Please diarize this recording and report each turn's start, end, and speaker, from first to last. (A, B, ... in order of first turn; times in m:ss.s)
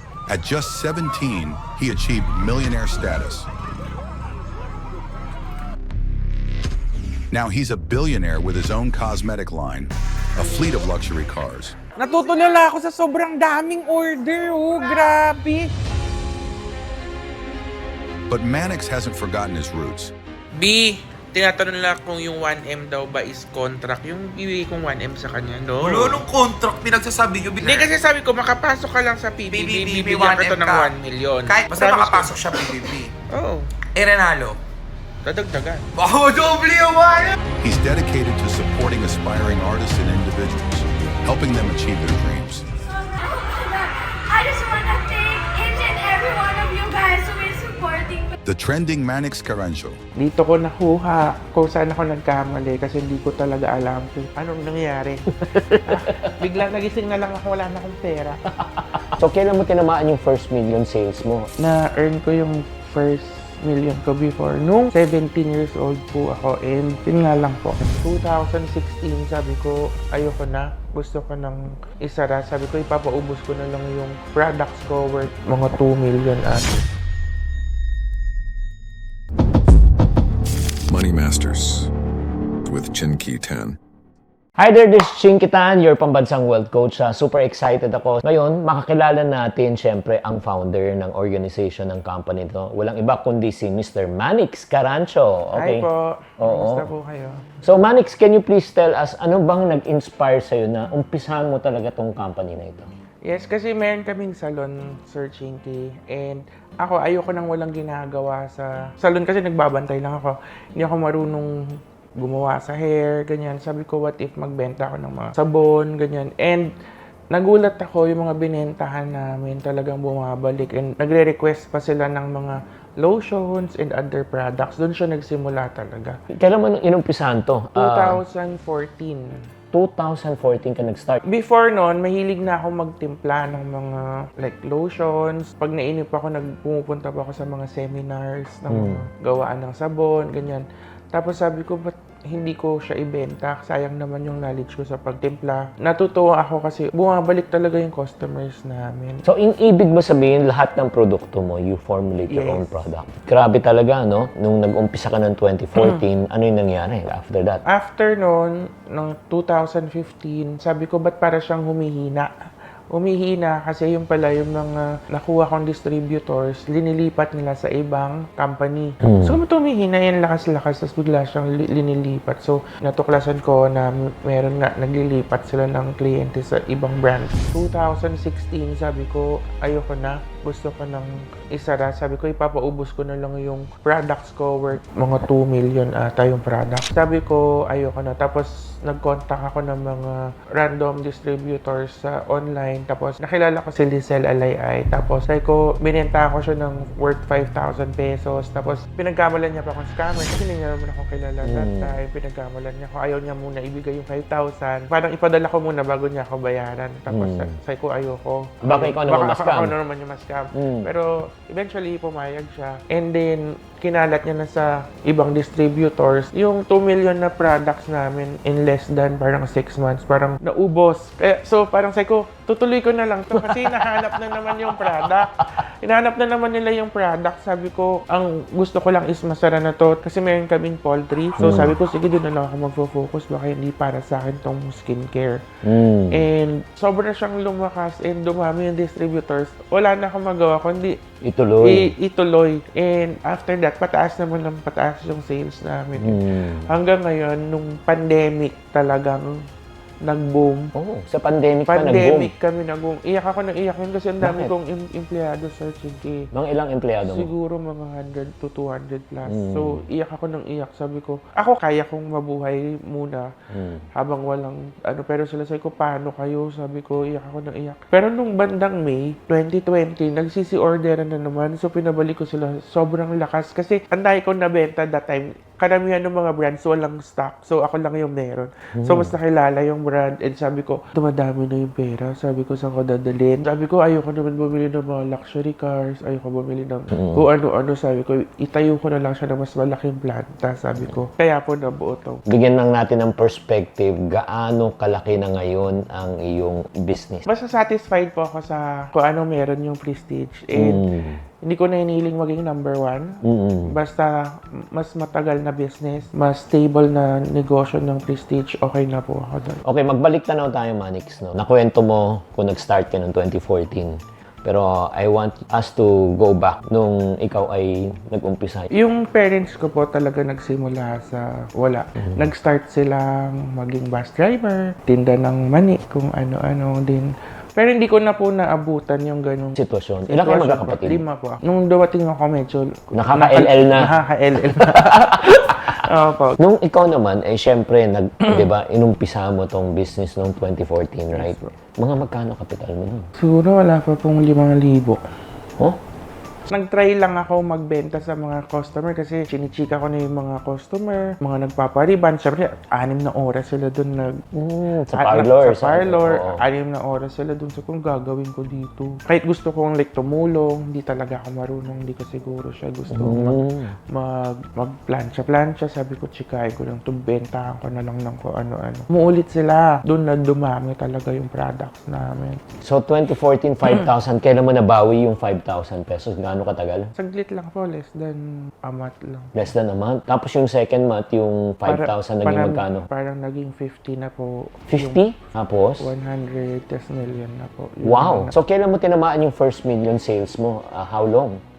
0:00.3-0:03.5 A
0:07.3-0:11.8 A
0:12.0-0:15.7 B
0:18.3-0:20.1 A
0:20.5-0:26.2 B
0:25.8-0:27.9 C
0:27.6-0:32.7 B
0:29.5-0:30.9 C
0:31.4-0:33.1 C
0:33.3-0:33.8 B
0:34.0-0:34.6 C
0:35.2-0:35.9 B
0:36.0-0:37.4 C
0:37.6-0:42.6 A
0:42.9-0:48.3 D
0:48.4-0:50.0 A
0:50.2-0:55.3 B
0:55.3-0:56.4 E
0:55.8-0:58.4 B
0:58.7-1:01.5 E
1:01.6-1:16.8 B
1:20.9-1:21.9 F
1:22.6-1:23.8 F
1:24.6-1:35.9 E
1:35.5-1:37.4 B
1:36.4-1:36.9 E
1:37.6-1:42.9 E
1:43.2-1:51.5 B
1:52.2-1:56.7 B
1:57.3-2:06.2 B
2:06.3-2:08.2 E
2:07.7-2:09.3 B
2:09.7-2:11.2 E
2:11.2-2:29.2 B
2:18.7-2:19.0 E
2:29.2-2:37.6 E
2:32.3-2:32.9 B
2:35.8-2:36.0 B
2:37.7-2:42.3 B
2:42.9-3:55.4 B
2:49.0-2:49.4 E
3:21.4-3:22.0 E
3:27.1-3:27.5 E
3:28.6-3:29.7 E
3:30.6-3:30.9 E
3:43.3-3:45.4 E
3:51.4-3:51.8 E
3:55.6-3:56.2 E
3:56.1-4:01.0 B
4:01.2-4:01.9 E
4:01.6-4:09.3 B
4:06.0-4:06.7 E
4:10.0-4:10.7 B
4:10.8-4:12.3 E
4:11.7-4:16.3 B
4:14.2-4:14.5 E
4:16.3-4:17.3 E
4:17.0-4:23.3 B
4:19.3-4:19.8 E
4:23.5-4:23.8 E
4:23.9-4:52.2 B
4:38.8-4:39.2 E
4:47.0-4:47.2 E
4:52.3-4:57.2 E
4:57.2-5:00.8 B
5:00.6-5:01.2 E
5:01.4-5:04.1 B
5:03.2-5:03.7 E
5:04.7-5:09.6 B
5:09.6-5:18.7 E
5:18.7-5:29.6 B
5:29.6-5:31.0 E
5:30.1-5:36.4 B
5:32.9-5:33.9 E
5:34.8-5:35.5 E
5:36.4-5:43.1 E
5:41.1-5:41.5 B
5:43.2-5:45.0 B
5:46.5-5:54.2 B
5:54.4-5:56.4 E
5:54.9-6:03.4 B
6:02.9-6:03.7 E
6:03.9-6:12.4 B
6:12.6-6:16.9 E
6:17.0-6:19.4 B
6:19.4-6:22.9 E
6:21.7-6:25.0 B
6:24.7-6:25.9 E
6:25.8-6:28.4 B
6:27.8-6:31.4 E